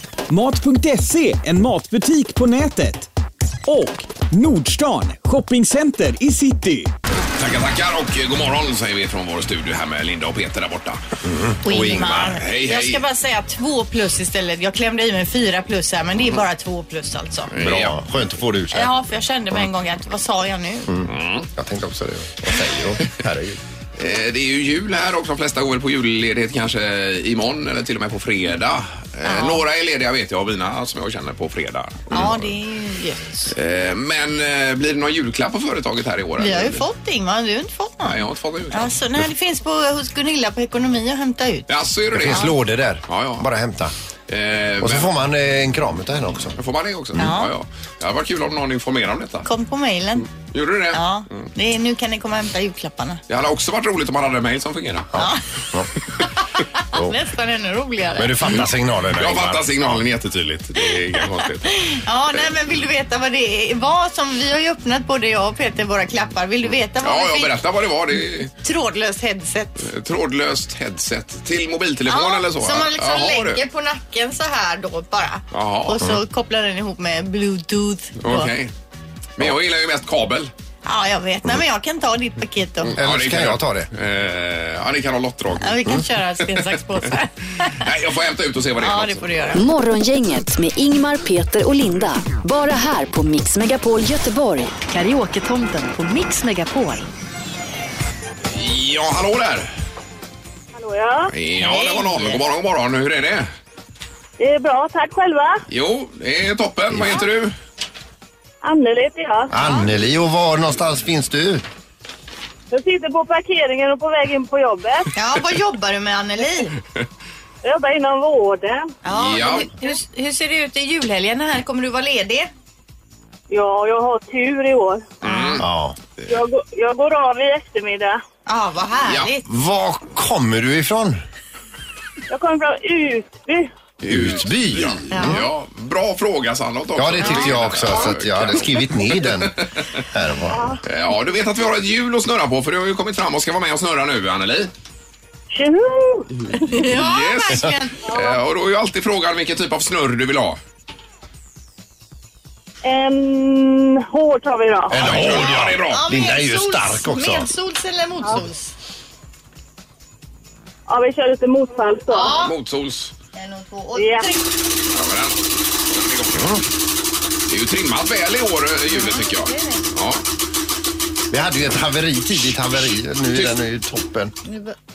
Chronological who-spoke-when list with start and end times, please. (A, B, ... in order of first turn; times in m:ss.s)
0:00.3-0:03.1 A
0:03.7-0:06.9 A
0:07.4-0:11.0 B
0:11.2-0:12.4 C
0:11.6-0:17.5 D
0:11.7-0:13.0 B
0:17.5-0:18.0 B
0:17.6-0:18.9 C
0:18.7-0:21.0 D
0:20.9-0:23.6 C
0:21.1-0:21.5 B
0:24.0-0:32.5 B
0:29.3-0:29.6 D
0:32.1-0:33.5 D
0:33.5-0:36.8 B
0:36.4-0:41.7 D
0:38.0-0:39.0 B
0:41.7-0:42.5 B
0:42.1-0:43.9 C
0:42.3-0:42.5 D
0:43.1-0:43.5 B
0:44.3-0:45.1 B
0:44.8-0:46.6 C
0:46.6-0:49.5 B
0:47.2-0:47.5 D
0:49.5-0:50.4 D
0:50.4-0:51.5 B
0:50.9-0:53.2 D
0:53.3-0:55.1 B
0:55.1-0:55.9 C
0:56.6-0:58.6 D
0:58.2-1:00.0 C
0:59.1-1:02.5 B
1:01.7-1:07.6 D
1:07.0-1:08.5 B
1:08.6-1:09.9 D
1:09.8-1:13.6 B
1:12.1-1:18.5 D
1:15.5-1:16.0 B
1:18.2-1:18.7 B
1:19.4-1:20.5 B
1:20.8-1:23.0 D
1:22.8-1:25.8 B
1:23.0-1:23.9 C
1:25.6-1:27.8 D
1:26.4-1:26.8 B
1:27.8-1:29.3 B
1:28.8-1:29.6 D
1:29.6-1:37.1 E
1:38.5-1:39.7 B
1:40.8-1:41.3 F
1:41.3-1:43.5 B
1:41.6-1:42.4 D
1:44.4-1:45.6 F
1:45.7-1:47.5 B
1:46.9-1:47.2 C
1:48.6-1:49.7 F
1:49.5-1:51.6 C
1:52.7-1:55.1 F
1:55.2-1:56.8 D
1:57.6-1:58.9 F
1:59.0-2:02.5 D
1:59.1-1:59.7 B
2:03.5-2:05.1 F
2:05.2-2:05.6 B
2:05.2-2:05.6 D
2:05.6-2:06.0 C
2:06.3-2:08.2 F
2:08.5-2:09.5 D
2:09.0-2:09.3 B
2:09.5-2:11.2 C
2:12.3-2:13.7 F
2:14.0-2:19.7 B
2:14.1-2:15.4 C
2:15.1-2:15.4 D
2:17.0-2:19.6 C
2:17.2-2:17.6 D
2:20.1-2:20.7 C
2:20.5-2:20.8 F
2:20.8-2:24.7 B
2:25.5-2:26.8 F
2:26.5-2:28.1 D
2:26.8-2:30.6 B
2:28.1-2:28.4 F
2:32.8-2:35.2 F
2:34.9-2:37.5 C
2:35.0-2:36.0 B
2:35.0-2:38.7 D
2:40.9-2:42.4 F
2:42.1-2:42.5 D
2:42.3-2:43.1 B
2:43.3-2:44.4 D
2:44.0-2:44.3 F
2:44.9-2:46.6 B
2:46.3-2:46.6 C
2:47.5-2:50.2 B
2:48.9-2:49.9 D
2:51.3-2:54.3 C
2:54.5-2:54.8 D